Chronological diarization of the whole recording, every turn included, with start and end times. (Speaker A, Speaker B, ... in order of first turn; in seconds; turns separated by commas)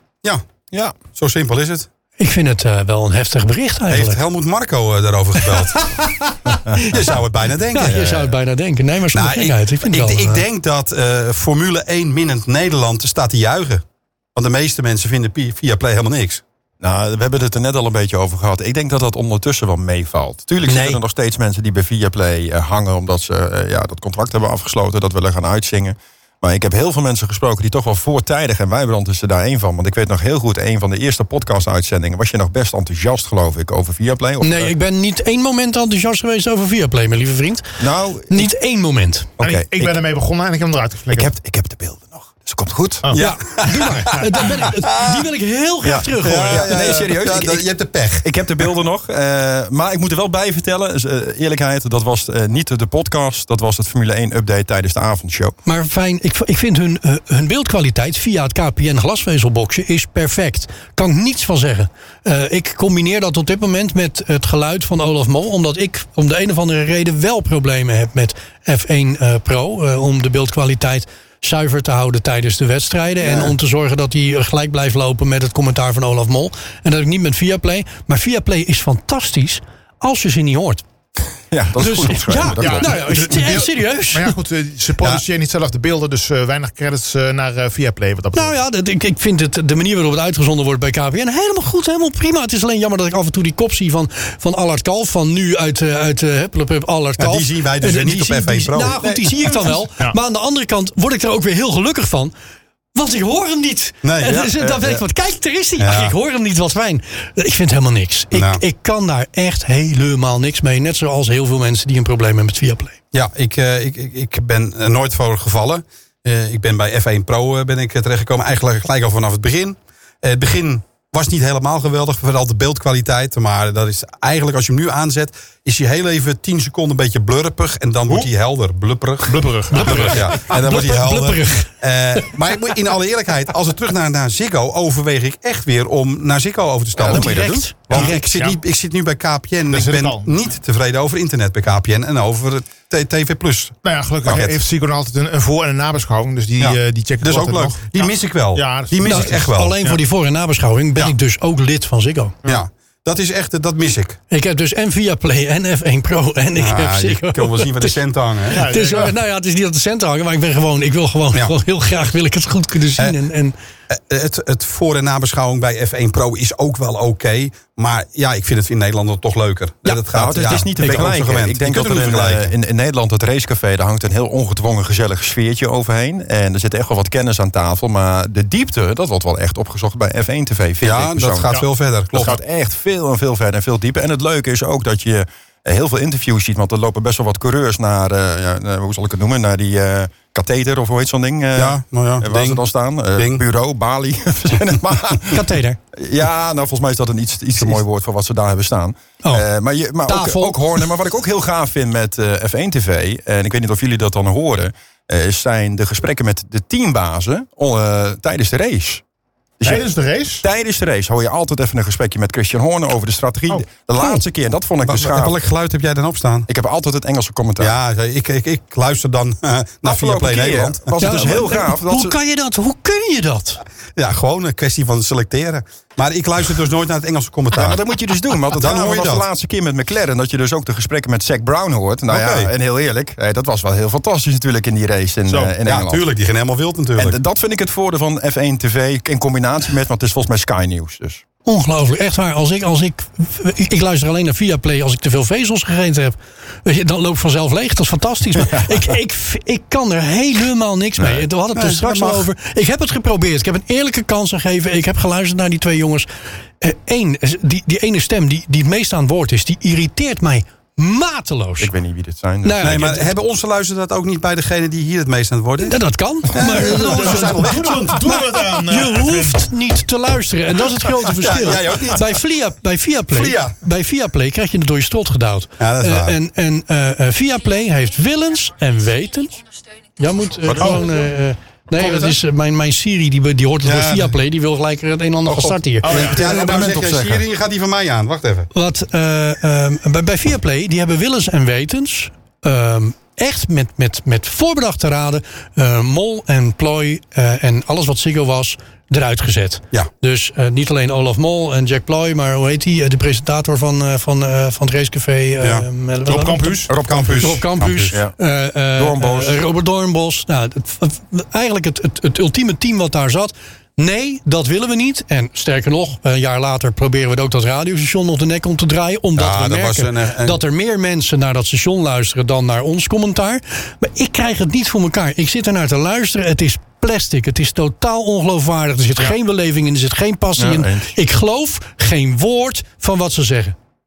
Speaker A: 0.7-1.0, Speaker B: 1.1-1.9, Speaker C: 2.2-4.2, Speaker B: 3.9-6.0, Speaker C: 6.5-7.0, Speaker B: 6.8-8.1, Speaker C: 7.7-10.4, Speaker A: 7.8-8.3, Speaker B: 9.1-13.8, Speaker B: 14.3-16.4, Speaker A: 16.8-34.7, Speaker C: 20.7-21.0, Speaker C: 34.4-39.3, Speaker A: 37.8-38.5, Speaker A: 39.4-40.0, Speaker D: 39.4-41.3, Speaker A: 41.1-43.2, Speaker C: 43.1-47.0, Speaker B: 43.1-45.2, Speaker A: 45.8-47.7, Speaker B: 46.2-48.7, Speaker A: 48.2-55.6, Speaker C: 55.7-80.8, Speaker A: 81.5-83.0, Speaker C: 81.8-84.3, Speaker D: 82.6-88.6, Speaker C: 88.3-102.3, Speaker B: 97.2-99.2, Speaker C: 103.0-113.0, Speaker B: 104.0-104.4, Speaker A: 104.2-105.0, Speaker B: 105.8-106.1, Speaker B: 108.3-108.6, Speaker B: 113.1-144.6, Speaker D: 129.3-130.3, Speaker C: 129.7-132.3, Speaker A: 137.0-137.7, Speaker C: 137.0-138.4, Speaker D: 137.9-138.6, Speaker D: 139.7-140.3, Speaker D: 143.8-149.4, Speaker B: 146.6-150.0, Speaker C: 149.0-152.3, Speaker B: 152.4-154.2, Speaker C: 154.3-158.0, Speaker B: 156.6-158.7, Speaker C: 158.5-163.6, Speaker D: 158.5-159.2, Speaker B: 163.9-172.5, Speaker A: 170.1-181.6, Speaker C: 170.8-171.1, Speaker B: 180.8-182.4, Speaker D: 181.5-182.4, Speaker A: 182.1-195.4, Speaker B: 191.6-192.6, Speaker B: 193.2-193.4, Speaker C: 195.3-195.8, Speaker A: 195.9-209.0, Speaker C: 200.1-200.8, Speaker A: 209.6-209.9, Speaker D: 209.6-210.4, Speaker A: 210.4-215.4, Speaker B: 214.8-216.5, Speaker A: 216.5-217.7, Speaker B: 217.6-221.3, Speaker A: 219.8-222.2, Speaker C: 221.0-223.6, Speaker B: 224.0-227.8, Speaker A: 227.5-236.1, Speaker B: 228.6-229.3, Speaker B: 232.1-232.5, Speaker B: 235.6-237.2, Speaker A: 237.0-241.2, Speaker C: 241.5-256.1, Speaker A: 251.0-251.2, Speaker B: 251.5-252.3, Speaker C: 256.6-261.7, Speaker A: 261.6-262.9, Speaker C: 262.4-263.1, Speaker B: 262.6-265.8, Speaker C: 265.6-267.5, Speaker B: 266.3-268.6, Speaker D: 266.4-269.4, Speaker C: 268.7-286.0, Speaker B: 271.1-272.1, Speaker B: 273.1-273.6, Speaker B: 275.6-276.2, Speaker A: 280.5-280.8, Speaker B: 281.8-282.2, Speaker B: 283.6-284.1, Speaker B: 285.4-288.5, Speaker D: 285.8-286.8, Speaker A: 285.9-287.2, Speaker C: 288.5-333.6, Speaker B: 305.4-305.7, Speaker D: 306.1-306.7, Speaker A: 306.7-308.1, Speaker B: 306.8-308.0, Speaker A: 308.8-309.4, Speaker B: 319.2-320.4, Speaker A: 330.4-330.9